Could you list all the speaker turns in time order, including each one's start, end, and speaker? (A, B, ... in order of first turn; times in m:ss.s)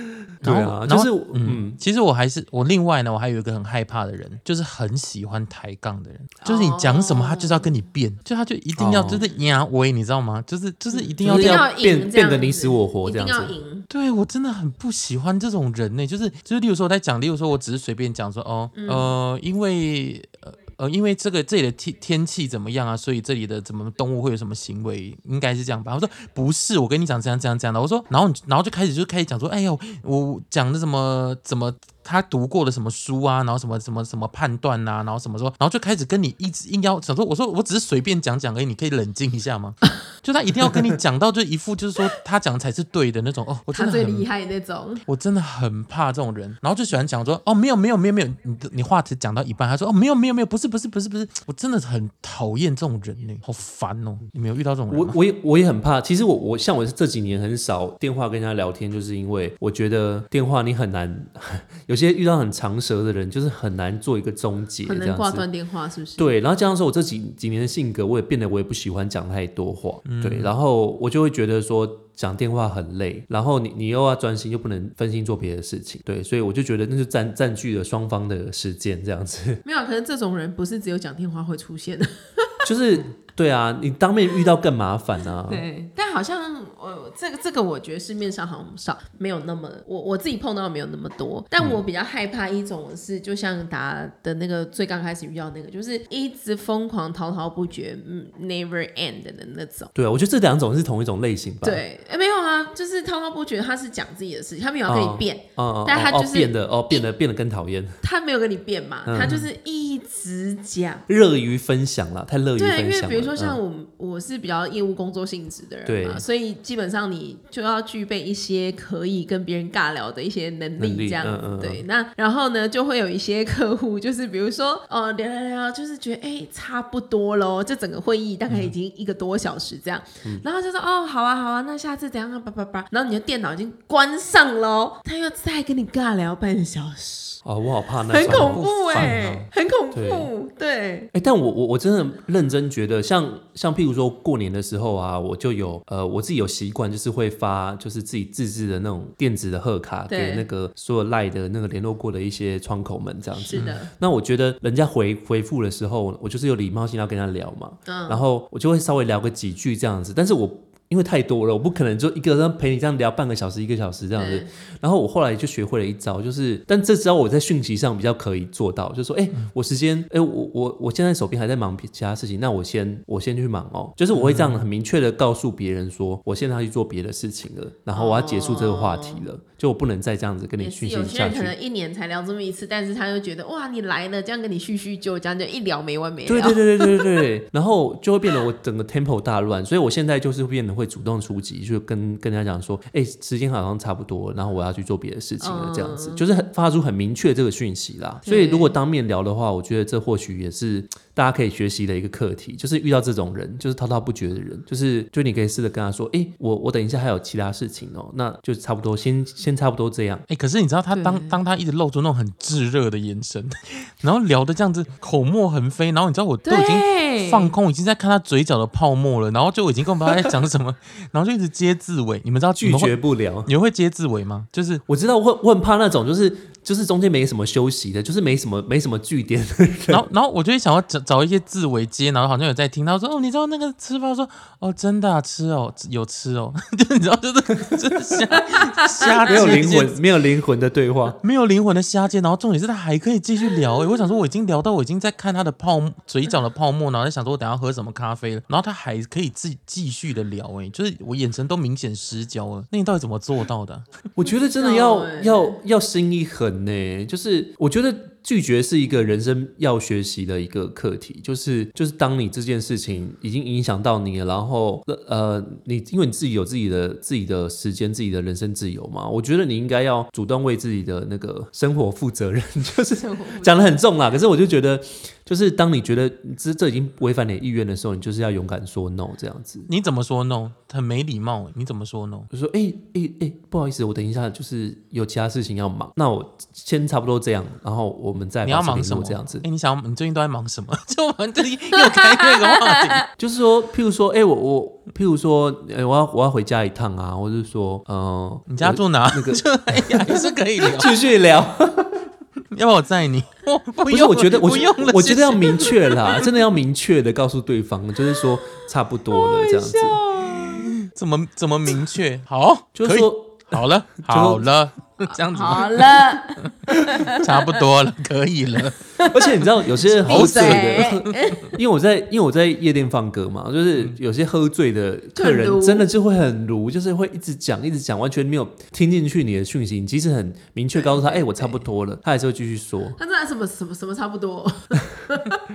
0:00.4-0:01.8 A
0:00.4-0:11.6 B
0:06.4-0:07.7 C
0:08.8-0:09.2 A
0:10.9-0:13.8 C
0:11.2-0:13.5 A
0:13.9-0:44.3 B
0:18.7-0:19.1 C
0:43.7-0:45.0 C
0:45.0-0:55.2 B
0:54.9-1:05.5 A
1:04.8-1:06.3 C
1:06.2-1:19.6 A
1:10.0-1:10.5 B
1:19.6-1:22.6 C
1:22.6-1:25.6 A
1:25.5-1:39.9 C
1:39.9-1:41.8 A
1:41.6-1:47.1 C
1:44.9-1:48.0 A
1:48.0-1:51.0 C
1:49.1-1:49.5 A
1:51.1-1:53.6 A
1:52.6-2:17.4 C
1:55.8-1:56.2 A
2:00.8-2:01.8 A
2:17.4-2:20.3 A
2:18.1-2:21.1 C
2:18.3-2:19.2 B
2:21.1-3:01.5 A
2:30.1-2:30.4 C
2:33.4-2:33.9 C
2:37.8-2:38.2 C
2:44.2-2:44.5 C
2:54.1-2:54.7 B
2:57.9-2:59.2 C
3:00.6-3:07.2 C
3:06.2-3:30.2 A
3:15.4-3:16.2 C
3:18.2-3:18.7 C
3:30.3-3:44.8 B
3:30.9-3:31.4 C
3:36.4-3:37.5 C
3:42.6-3:43.5 A
3:44.9-3:50.0 A
3:49.9-4:00.0 B
3:58.5-3:59.1 C
3:59.2-4:01.2 A
4:01.2-4:13.8 B
4:14.2-4:39.7 A
4:14.5-4:15.6 C
4:33.0-4:33.8 C
4:39.7-4:42.3 B
4:42.3-4:49.4 A
4:48.4-4:53.0 B
4:51.7-4:53.0 C
4:53.2-5:02.0 A
4:58.5-5:01.0 B
5:02.5-5:06.3 B
5:03.9-5:10.0 A
5:09.1-5:10.7 C
5:10.2-5:18.8 B
5:12.7-5:14.5 A
5:15.1-5:17.6 C
5:19.0-5:19.4 C
5:19.0-5:33.0 A
5:20.0-5:21.6 B
5:20.0-5:21.5 C
5:25.2-5:25.9 C
5:30.7-5:31.6 C
5:33.0-5:35.4 C